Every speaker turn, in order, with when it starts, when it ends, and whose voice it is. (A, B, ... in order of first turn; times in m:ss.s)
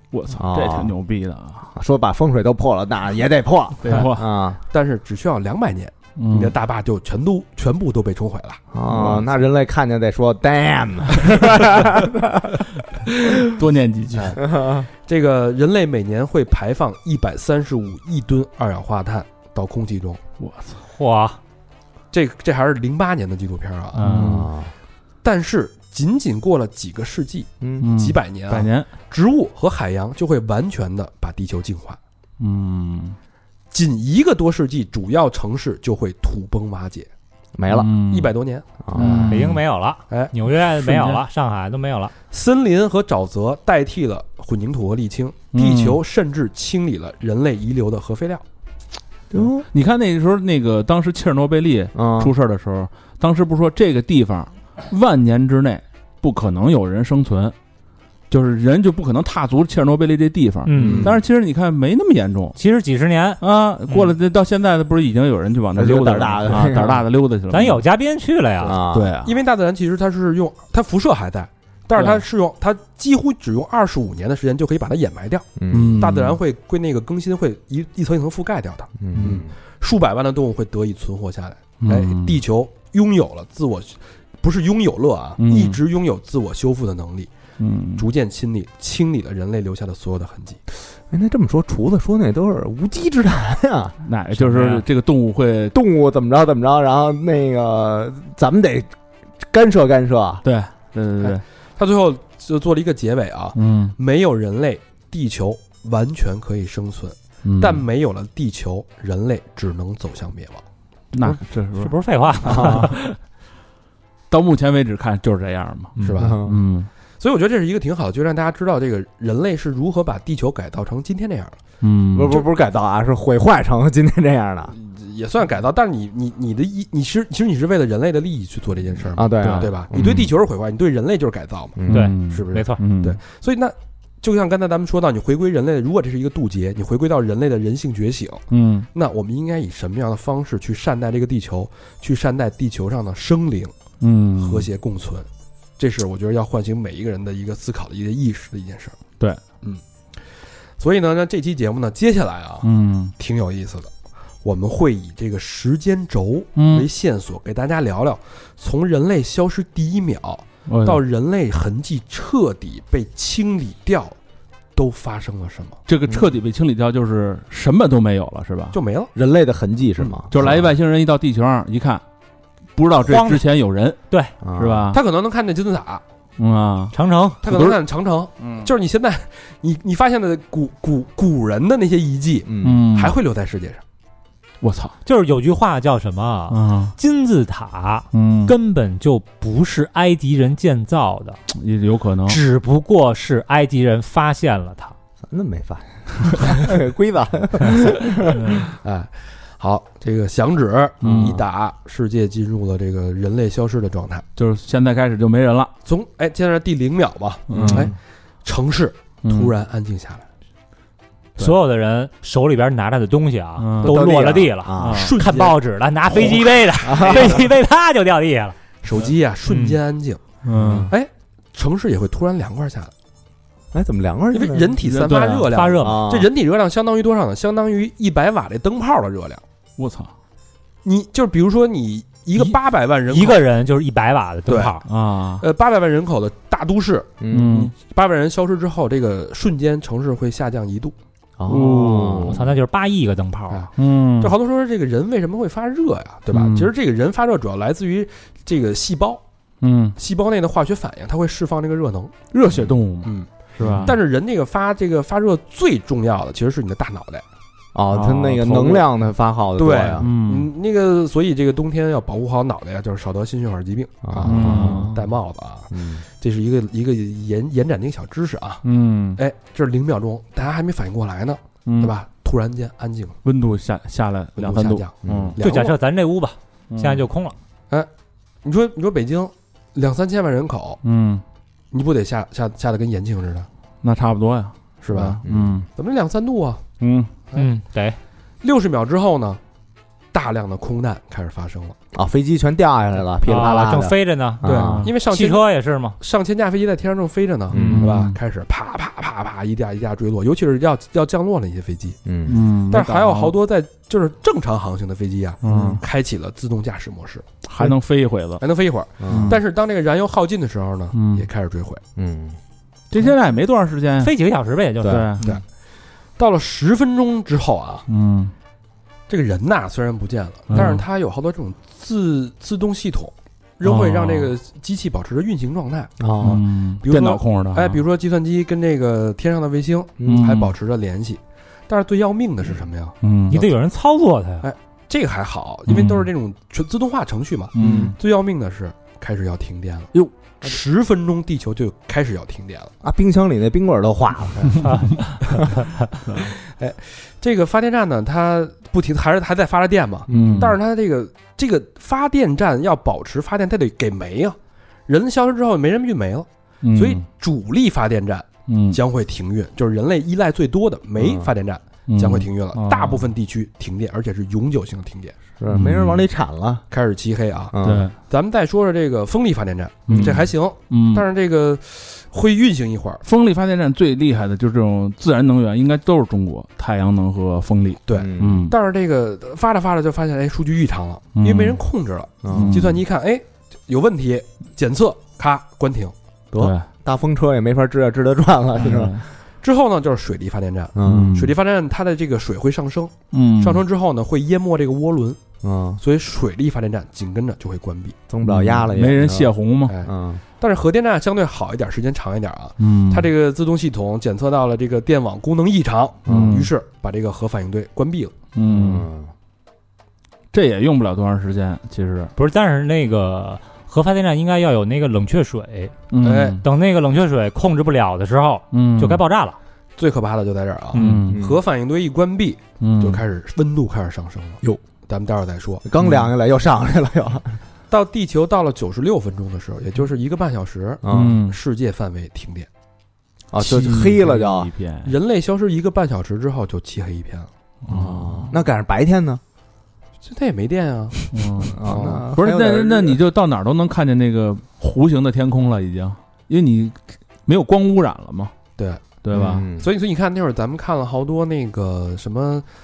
0:00.1-0:01.7 A
0:00.4-0:01.0 B
0:01.7-0:04.6 B
0:03.8-0:04.3 A
0:04.7-0:08.6 C
0:06.2-0:06.6 A
0:08.7-0:12.6 B
0:08.9-0:09.2 A
0:13.3-0:14.4 A
0:14.1-0:20.2 C
0:14.4-0:14.9 B
0:20.4-0:20.8 A
0:20.9-0:21.4 D
0:22.1-0:24.4 C
0:24.0-0:24.5 A
0:24.1-0:24.7 B
0:25.2-0:32.0 C
0:27.8-0:28.9 A
0:32.4-0:33.2 A
0:33.7-0:37.1 C
0:37.6-0:37.9 B
0:37.7-0:38.3 A
0:38.1-0:39.2 C
0:38.8-0:39.4 B
0:39.0-0:39.6 A
0:39.0-0:42.1 D
0:40.7-0:41.2 A
0:42.3-0:48.4 C
0:45.5-0:46.0 A
0:49.3-0:49.6 B
0:49.7-0:57.6 A
0:52.0-0:52.3 B
0:58.3-1:02.6 A
1:00.6-1:01.2 D
1:00.7-1:01.2 B
1:02.6-1:04.1 D
1:03.4-1:07.8 A
1:05.8-1:07.0 B
1:07.5-1:08.8 D
1:08.6-1:09.1 B
1:08.9-1:09.4 A
1:09.3-1:27.3 C
1:15.6-1:16.1 B
1:15.7-1:16.4 A
1:19.0-1:19.5 B
1:19.1-1:19.4 A
1:21.8-1:22.4 A
1:25.4-1:25.8 A
1:27.6-1:28.1 A
1:28.0-1:30.6 C
1:31.1-1:34.8 B
1:34.1-1:35.8 A
1:35.7-1:40.4 B
1:40.4-1:41.4 A
1:41.2-1:50.6 C
1:43.6-1:44.0 A
1:47.4-1:47.8 A
1:51.1-1:51.9 A
1:51.8-1:53.2 D
1:52.4-1:52.9 B
1:54.3-1:56.9 A
1:56.0-1:56.4 C
1:56.2-1:56.6 B
1:57.2-2:01.6 C
2:01.8-2:02.5 A
2:02.1-2:04.8 B
2:04.8-2:23.7 C
2:09.1-2:10.3 B
2:09.4-2:10.3 A
2:11.8-2:12.1 B
2:11.8-2:13.2 A
2:11.9-2:12.8 D
2:18.5-2:18.9 A
2:24.0-2:24.7 A
2:24.4-2:25.3 C
2:25.8-2:29.0 C
2:30.8-2:32.7 C
2:32.6-2:33.1 A
2:33.2-2:33.9 C
2:34.4-2:44.2 C
2:36.6-2:36.9 A
2:40.7-2:41.0 A
2:44.8-2:45.8 C
2:45.9-2:48.8 A
2:48.7-2:49.1 C
2:49.2-2:50.7 B
2:50.3-2:52.0 A
2:52.8-2:54.0 A
2:53.0-2:53.4 D
2:54.4-2:54.9 B
2:54.6-2:55.0 A
2:54.9-2:56.0 C
2:56.4-2:57.8 A
2:56.9-2:57.4 D
2:57.4-3:03.8 C
2:58.4-2:58.7 A
3:02.4-3:02.9 B
3:02.6-3:03.2 A
3:04.6-3:04.9 A
3:05.0-3:11.4 D
3:06.5-3:06.9 A
3:08.1-3:08.5 A
3:11.5-3:12.4 A
3:12.3-3:14.9 D
3:15.3-3:18.6 B
3:18.3-3:18.6 A
3:18.8-3:24.2 C
3:21.0-3:21.4 A
3:21.0-3:21.4 B
3:24.4-3:25.7 A
3:25.8-3:30.2 C
3:27.5-3:27.9 A
3:27.5-3:28.0 B
3:29.2-3:29.5 A
3:31.4-3:38.6 D
3:33.6-3:34.0 A
3:33.8-3:35.1 B
3:34.8-3:35.2 A
3:34.9-3:35.6 C
3:36.1-3:37.4 C
3:36.8-3:37.4 B
3:38.8-3:40.2 C
3:39.5-3:39.8 D
3:40.4-3:40.9 A
3:40.5-3:40.9 B
3:40.9-3:42.9 C
3:43.7-3:44.8 B
3:44.3-3:49.4 C
3:44.8-3:45.5 A
3:45.5-3:46.0 D
3:45.8-3:46.3 B
3:49.8-3:50.1 A
3:50.8-3:53.4 C
3:53.1-3:54.8 D
3:54.5-3:54.8 C
3:54.9-3:55.4 A
3:55.4-4:00.9 C
3:57.2-3:57.7 B
3:57.3-3:57.7 A
4:01.4-4:02.4 B
4:01.5-4:02.4 A
4:02.3-4:03.6 D
4:03.5-4:09.2 C
4:03.8-4:04.4 A
4:06.3-4:06.7 A
4:09.6-4:10.0 A
4:10.0-4:12.2 C
4:12.3-4:14.0 A
4:13.0-4:17.2 C
4:13.6-4:14.0 B
4:17.8-4:20.1 B
4:17.9-4:18.9 A
4:19.6-4:28.6 C
4:20.0-4:20.5 A
4:24.0-4:25.1 B
4:24.2-4:25.0 A
4:25.7-4:26.0 B
4:28.6-4:29.2 A
4:29.2-4:33.2 C
4:31.7-4:32.0 A
4:33.2-4:35.4 A
4:34.4-4:35.8 C
4:35.0-4:35.4 B
4:35.4-4:37.4 D
4:36.7-4:37.0 A
4:38.4-4:40.8 C
4:40.8-4:41.2 A
4:41.7-4:43.5 C
4:43.8-4:45.7 A
4:44.8-4:45.2 C
4:45.2-4:45.6 B
4:45.8-4:46.6 C
4:46.8-4:47.1 A
4:47.4-4:48.0 D
4:48.4-4:49.4 C
4:50.1-4:51.8 C
4:51.9-4:54.9 B
4:53.2-4:54.4 D
4:54.4-4:55.5 C
4:54.5-4:54.9 A
4:55.0-4:56.0 D
4:56.0-5:02.0 C
4:57.5-4:57.9 B
4:57.5-4:58.2 A
5:02.0-5:02.4 B
5:02.3-5:03.4 A
5:02.7-5:07.2 C
5:05.4-5:05.8 A
5:07.4-5:08.4 A
5:08.4-5:11.8 C
5:09.0-5:09.4 B
5:09.1-5:09.4 A
5:10.9-5:11.3 A
5:12.0-5:12.4 B
5:12.9-5:14.1 A
5:14.0-5:15.4 D
5:14.8-5:15.1 B
5:14.8-5:15.2 A
5:16.2-5:17.8 C
5:17.9-5:18.3 A
5:19.1-5:33.5 C
5:20.5-5:20.8 A
5:23.6-5:24.3 A
5:26.0-5:26.4 B
5:26.2-5:27.8 A
5:30.0-5:30.3 B
5:30.1-5:30.5 A
5:33.0-5:33.4 A
5:33.3-5:34.5 D
5:34.4-5:42.7 C
5:35.7-5:36.1 A
5:37.5-5:38.0 A
5:37.6-5:38.0 B
5:42.8-5:44.7 B
5:44.4-5:45.5 C
5:46.1-5:46.3 A
5:46.2-6:05.2 C
5:50.1-5:50.6 B
5:50.1-5:50.6 A
5:56.6-5:57.0 A
5:58.5-5:58.8 A
6:01.0-6:01.3 B
6:01.9-6:03.1 A
6:05.4-6:06.6 B
6:05.5-6:06.0 A
6:06.7-6:07.6 C
6:07.5-6:07.9 B
6:07.6-6:07.9 A
6:08.1-6:13.0 C
6:09.9-6:11.1 A
6:09.9-6:10.2 B
6:13.0-6:18.6 A
6:17.9-6:25.9 C
6:17.9-6:18.5 B
6:21.2-6:21.6 A
6:22.2-6:22.7 B
6:22.3-6:22.8 A
6:26.3-6:29.0 B
6:26.4-6:26.7 A
6:28.6-6:29.1 A
6:29.4-6:35.2 C
6:30.8-6:31.2 B
6:30.8-6:31.4 A
6:33.1-6:33.6 A
6:35.4-6:35.8 B
6:35.8-6:38.0 C
6:38.1-6:39.3 B
6:38.2-6:39.8 A
6:39.7-6:48.1 C
6:39.8-6:40.2 B
6:42.6-6:43.1 A
6:46.1-6:46.5 B
6:46.1-6:46.5 A
6:48.4-6:48.9 A
6:48.5-6:49.1 B
6:50.3-6:52.1 A
6:52.2-6:55.8 D
6:55.9-6:56.4 A
6:56.0-6:56.4 C
6:56.4-6:59.4 D
6:58.5-6:59.0 A
6:59.8-7:05.6 C
7:00.7-7:01.1 D
7:00.8-7:01.2 A
7:01.1-7:01.4 B
7:02.6-7:03.0 A
7:05.6-7:07.4 B
7:05.8-7:06.1 A
7:07.7-7:12.5 C
7:10.8-7:11.2 B
7:10.9-7:11.4 A
7:13.3-7:14.5 B
7:13.4-7:15.0 A
7:14.8-7:17.3 C
7:17.6-7:18.4 A
7:17.7-7:19.2 B
7:20.0-7:21.1 C
7:21.1-7:28.3 A
7:21.5-7:23.0 B
7:21.6-7:22.0 C
7:28.6-7:32.4 C
7:29.0-7:29.4 A
7:29.1-7:29.7 B